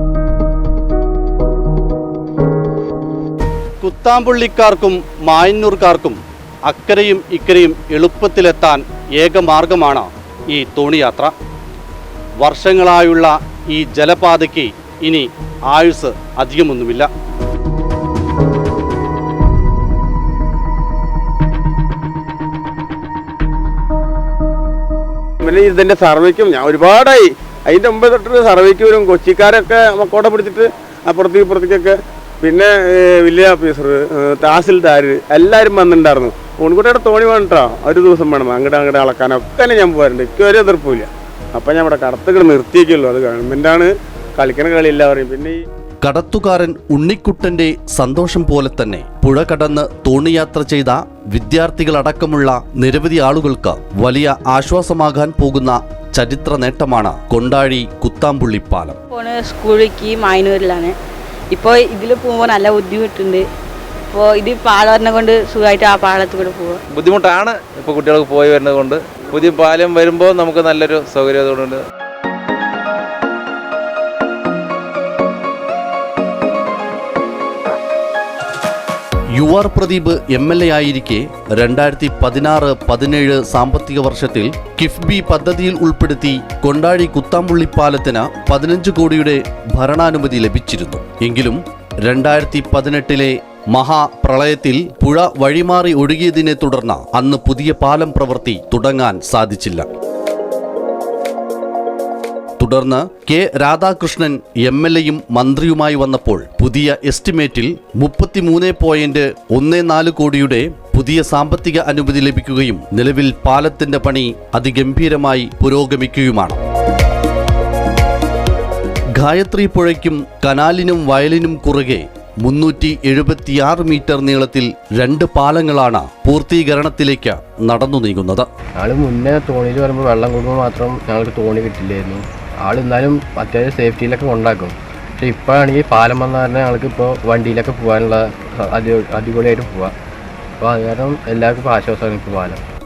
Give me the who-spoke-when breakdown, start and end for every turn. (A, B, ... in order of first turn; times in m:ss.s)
0:03.8-0:11.3 A
0:12.4-0:17.1 A
0:25.4-0:45.6 B
0:46.0-0:59.0 A
0:59.1-1:01.0 C
1:01.5-1:03.5 C
1:04.1-1:06.8 C
1:06.9-1:11.8 D
1:19.4-1:39.9 A
1:42.6-1:56.6 A
1:59.2-2:08.5 A
2:08.8-2:19.9 E
2:20.6-2:22.6 E